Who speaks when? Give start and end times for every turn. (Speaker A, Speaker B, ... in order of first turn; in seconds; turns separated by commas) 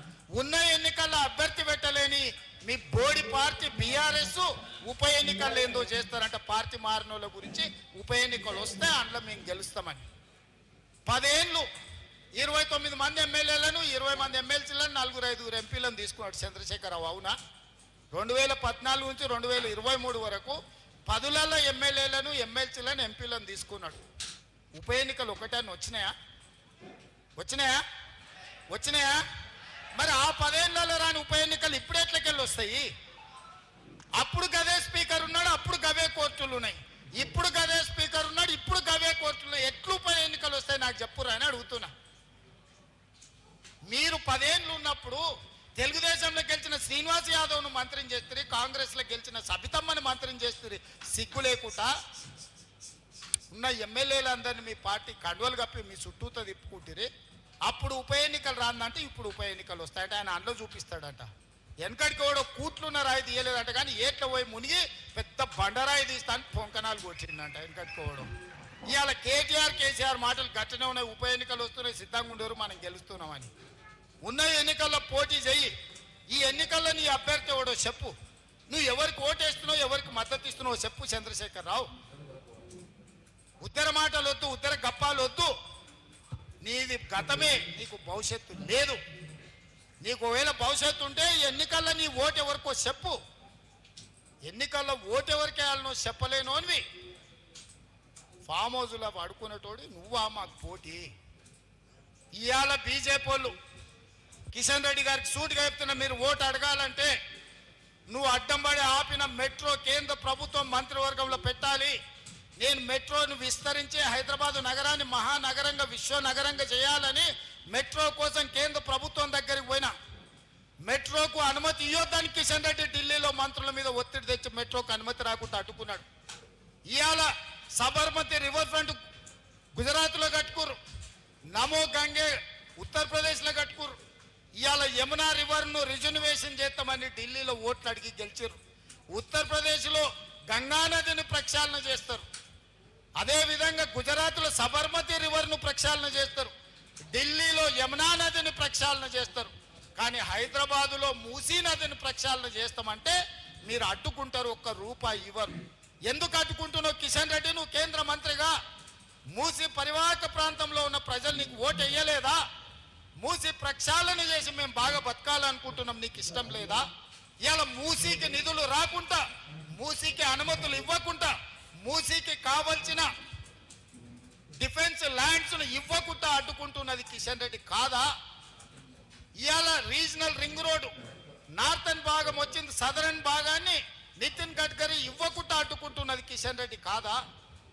Speaker A: 0.3-10.0, Speaker A: 11.1-11.7, Speaker A: 12.4-17.4, Speaker A: 18.1-24.0, Speaker A: 24.8-26.1, Speaker A: 27.4-27.8, Speaker A: 28.7-29.2, Speaker A: 30.0-32.9, Speaker A: 34.2-41.9, Speaker A: 43.9-45.2, Speaker A: 45.8-51.9, Speaker A: 53.5-57.1, Speaker A: 57.7-61.3, Speaker A: 61.8-68.3, Speaker A: 68.9-73.5, Speaker A: 74.2-75.7, Speaker A: 76.3-78.1, Speaker A: 78.7-81.9, Speaker A: 83.6-85.5, Speaker A: 86.6-89.0, Speaker A: 90.0-93.2, Speaker A: 94.5-96.8, Speaker A: 98.5-101.1, Speaker A: 102.4-103.6, Speaker A: 104.5-107.1, Speaker A: 108.1-112.0, Speaker A: 112.6-119.9, Speaker A: 120.8-126.1, Speaker A: 126.9-128.9, Speaker A: 129.8-130.8, Speaker A: 131.5-134.0, Speaker A: 134.6-138.6, Speaker A: 139.1-142.3, Speaker A: 143.2-146.5, Speaker A: 147.1-158.5, Speaker A: 159.3-162.4, Speaker A: 163.2-166.8, Speaker A: 167.4-169.2, Speaker A: 169.8-173.1, Speaker A: 174.6-178.1, Speaker A: 179.4-180.9, Speaker A: 181.6-187.2